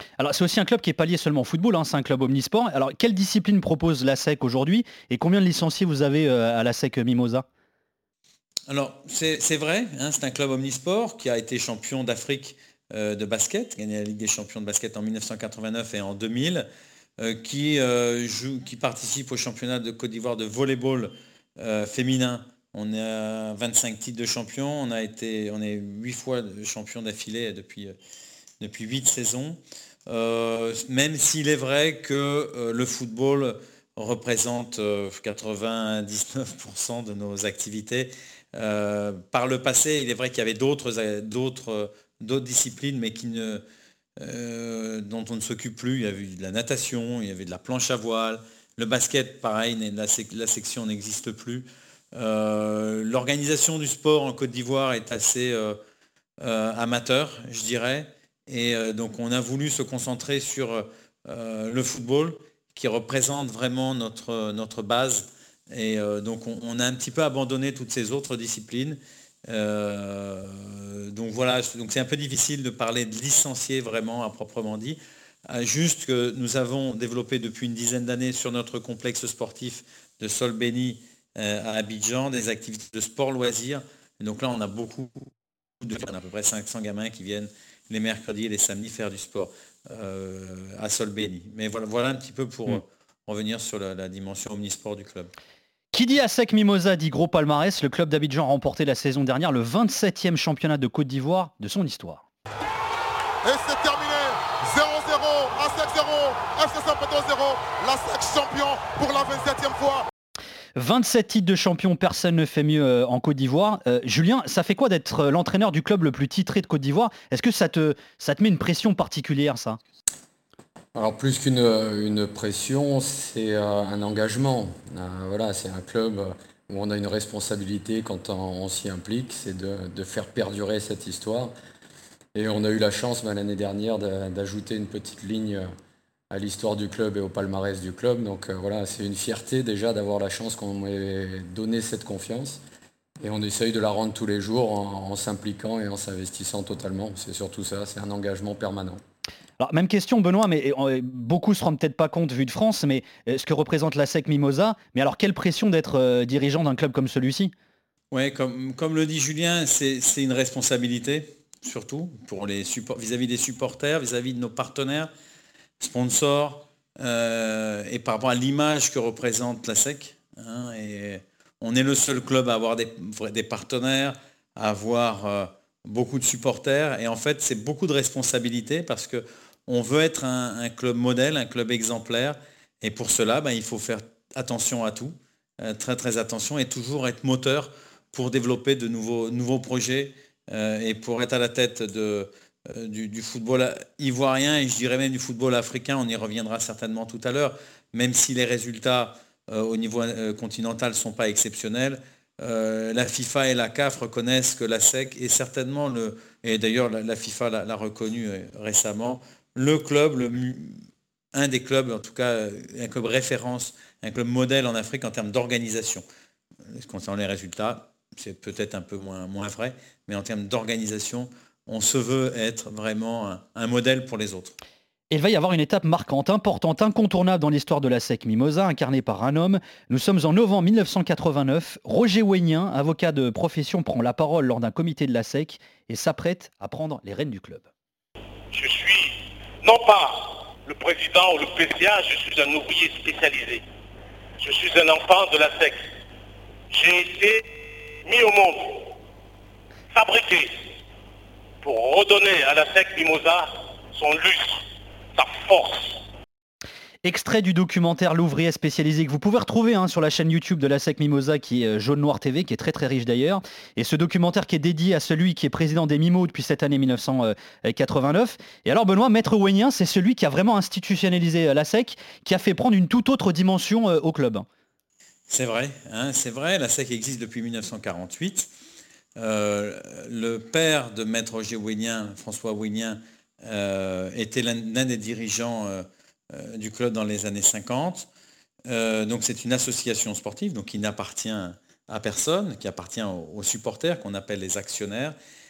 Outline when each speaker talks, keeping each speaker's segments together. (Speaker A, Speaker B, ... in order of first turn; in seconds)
Speaker A: 0.2-7.5, 95.9-102.2, 110.8-119.8, 149.6-157.5, 225.1-237.7, 257.0-274.5
Speaker B: 8.7-16.7, 17.2-27.9, 28.6-43.6, 44.2-55.8, 56.4-85.3, 85.8-95.3, 158.1-165.1, 165.8-210.8, 211.3-216.0, 216.7-224.6, 275.3-278.5, 279.2-288.1, 288.7-295.1
Speaker C: 103.4-110.1
Speaker D: 121.0-131.5, 132.3-135.7, 136.3-142.6, 143.2-149.0
Speaker E: 238.5-243.6, 244.4-245.8, 246.7-247.4, 248.1-248.9, 249.9-250.6, 251.6-254.6, 255.2-256.0